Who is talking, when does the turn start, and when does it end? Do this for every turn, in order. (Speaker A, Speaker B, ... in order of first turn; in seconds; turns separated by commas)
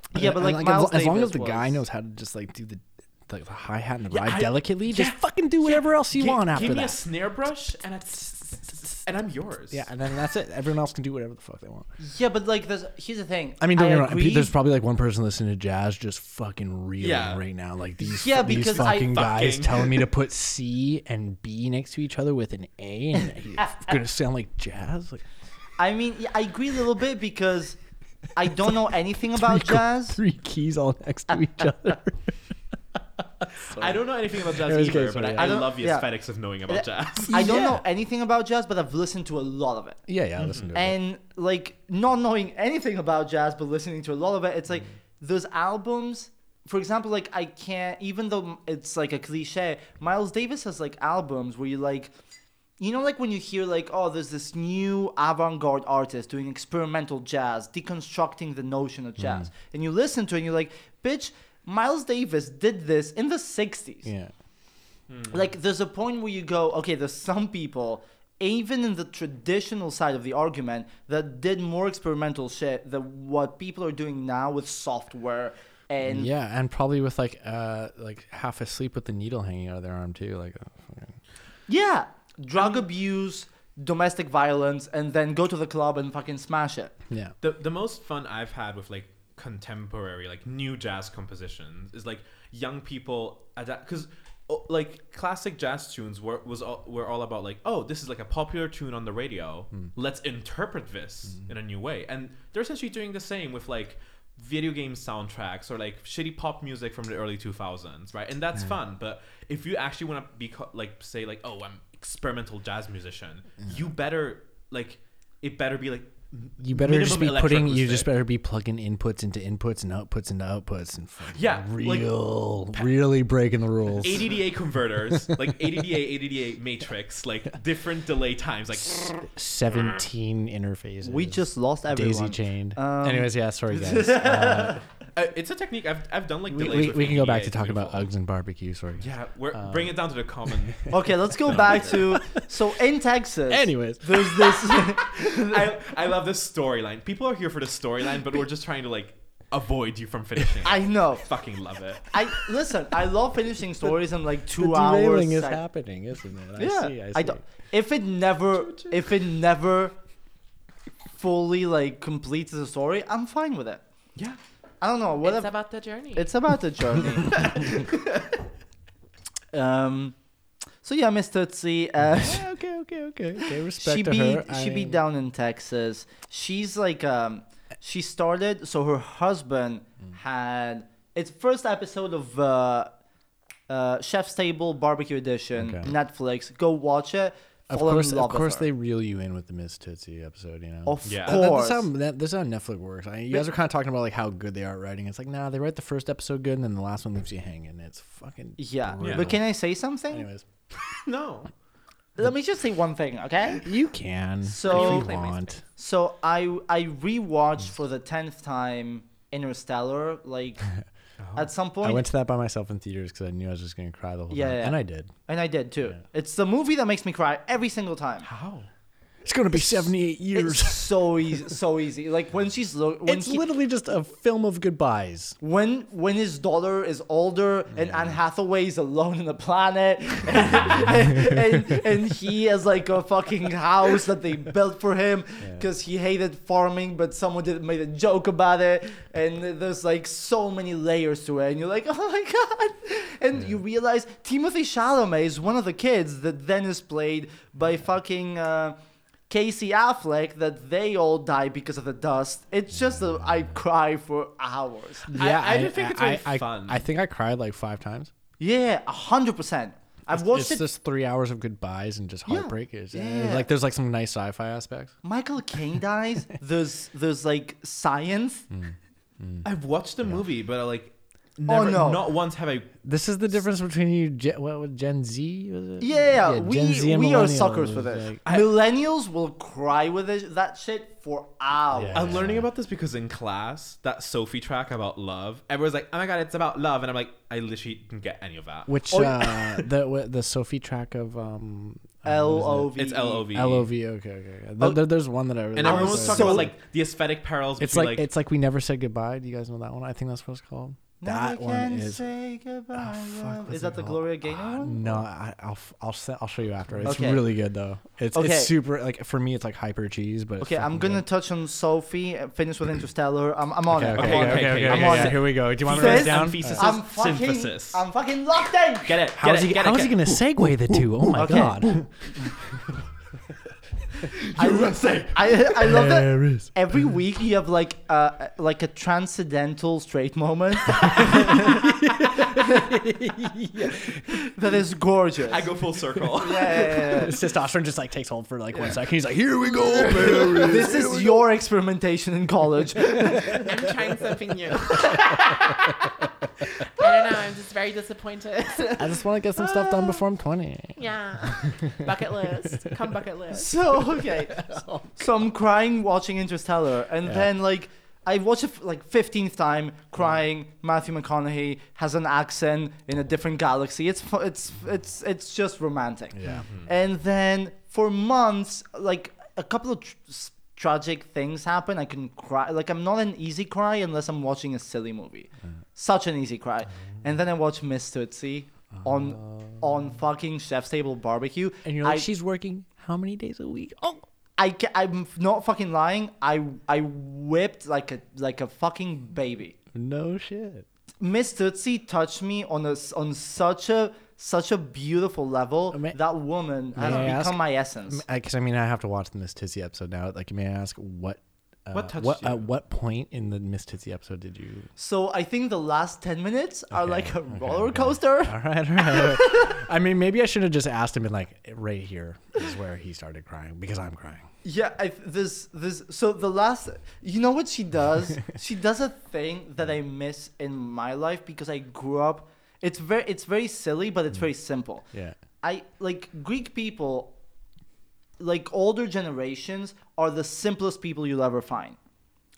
Speaker A: 0.1-7.0, Speaker B: 0.1-1.8, Speaker C: 4.1-9.9, Speaker A: 9.7-11.9, Speaker B: 12.0-14.5, Speaker A: 13.6-25.2, Speaker C: 17.0-17.4, Speaker B: 18.1-19.1, Speaker C: 18.6-20.1, Speaker B: 25.8-27.8, Speaker B: 28.3-30.2, Speaker A: 29.3-32.3, Speaker A: 33.4-34.0, Speaker C: 33.6-37.7, Speaker A: 34.5-35.6, Speaker B: 35.3-36.1, Speaker B: 36.7-40.0, Speaker A: 37.3-37.8, Speaker A: 40.1-41.0, Speaker C: 40.4-40.7, Speaker B: 40.7-52.1, Speaker B: 52.8-64.1, Speaker A: 59.2-59.5, Speaker A: 64.0-64.3, Speaker C: 65.1-65.4, Speaker B: 65.3-76.3, Speaker A: 76.0-81.2, Speaker B: 81.7-86.9, Speaker A: 87.1-87.3, Speaker C: 87.4-118.1, Speaker A: 116.6-124.4, Speaker C: 121.3-122.2, Speaker C: 122.7-123.0, Speaker C: 124.0-129.2, Speaker A: 125.1-125.5, Speaker A: 129.0-134.8, Speaker B: 131.0-134.8, Speaker C: 135.1-138.1, Speaker A: 136.5-139.9, Speaker C: 139.0-142.1, Speaker B: 140.9-145.8, Speaker A: 141.5-142.4, Speaker A: 143.5-144.7, Speaker C: 144.9-152.1, Speaker B: 150.6-151.2, Speaker B: 152.1-155.6, Speaker A: 154.5-157.4, Speaker B: 156.6-159.9, Speaker C: 158.5-159.1, Speaker B: 161.1-163.8, Speaker B: 164.8-165.5, Speaker D: 165.2-166.3, Speaker B: 166.1-167.9, Speaker B: 169.5-170.1, Speaker B: 170.8-172.4, Speaker A: 172.1-175.0, Speaker B: 173.4-182.9, Speaker B: 183.7-188.7, Speaker A: 185.6-185.9, Speaker A: 187.7-199.4, Speaker B: 190.8-191.9, Speaker C: 191.0-191.5, Speaker B: 198.6-200.3, Speaker C: 199.0-199.3, Speaker A: 200.1-200.4, Speaker C: 200.8-201.5, Speaker B: 202.2-203.7, Speaker A: 203.6-205.6, Speaker B: 204.4-205.2, Speaker C: 204.6-205.4, Speaker B: 205.8-210.6, Speaker C: 211.2-211.5, Speaker B: 211.3-212.0, Speaker A: 211.8-215.1, Speaker B: 214.3-218.3, Speaker C: 218.2-218.7, Speaker A: 219.2-220.9, Speaker B: 219.5-223.4, Speaker A: 223.1-225.4, Speaker B: 225.4-248.8, Speaker A: 227.7-228.2, Speaker A: 235.4-235.7, Speaker B: 249.3-255.1, Speaker A: 252.9-253.2, Speaker A: 255.1-258.1, Speaker C: 255.1-256.8, Speaker B: 258.4-260.6, Speaker A: 260.1-264.9, Speaker B: 262.3-263.5, Speaker B: 265.0-268.5, Speaker A: 268.5-269.4, Speaker C: 269.4-272.7, Speaker B: 271.4-272.1, Speaker A: 272.8-278.2, Speaker B: 275.8-282.0, Speaker A: 281.7-282.4, Speaker C: 281.9-288.8, Speaker A: 288.7-292.7, Speaker B: 288.9-289.3, Speaker B: 292.0-293.2, Speaker C: 292.7-293.7, Speaker A: 293.3-296.5, Speaker B: 294.6-294.8, Speaker C: 295.6-298.1, Speaker B: 295.6-296.5, Speaker A: 297.6-302.0, Speaker B: 301.0-305.0, Speaker A: 302.7-311.0, Speaker B: 306.8-307.2, Speaker B: 308.1-308.5, Speaker B: 310.4-319.0, Speaker A: 313.7-316.7, Speaker C: 313.9-317.8, Speaker C: 318.9-321.9, Speaker A: 319.1-321.9, Speaker B: 321.1-321.8, Speaker C: 324.0-325.6, Speaker B: 324.3-332.7, Speaker A: 325.6-326.5, Speaker A: 330.8-334.2, Speaker B: 334.1-335.5, Speaker C: 335.3-336.9, Speaker B: 336.1-337.2, Speaker A: 336.8-341.2, Speaker B: 340.0-343.5, Speaker D: 343.1-345.7, Speaker D: 346.6-349.8, Speaker A: 348.7-350.8, Speaker D: 350.8-353.5, Speaker A: 351.3-351.9, Speaker B: 353.3-382.1, Speaker A: 354.0-355.1, Speaker A: 357.0-357.3, Speaker A: 366.1-366.5, Speaker A: 378.8-379.6, Speaker A: 381.6-384.1, Speaker B: 384.4-389.5, Speaker A: 389.7-390.6, Speaker B: 391.0-398.0, Speaker A: 395.7-396.0, Speaker A: 396.7-404.7, Speaker C: 401.7-402.4, Speaker B: 404.8-409.6, Speaker A: 406.7-414.2, Speaker B: 414.4-424.9, Speaker B: 425.4-427.1, Speaker B: 428.2-431.8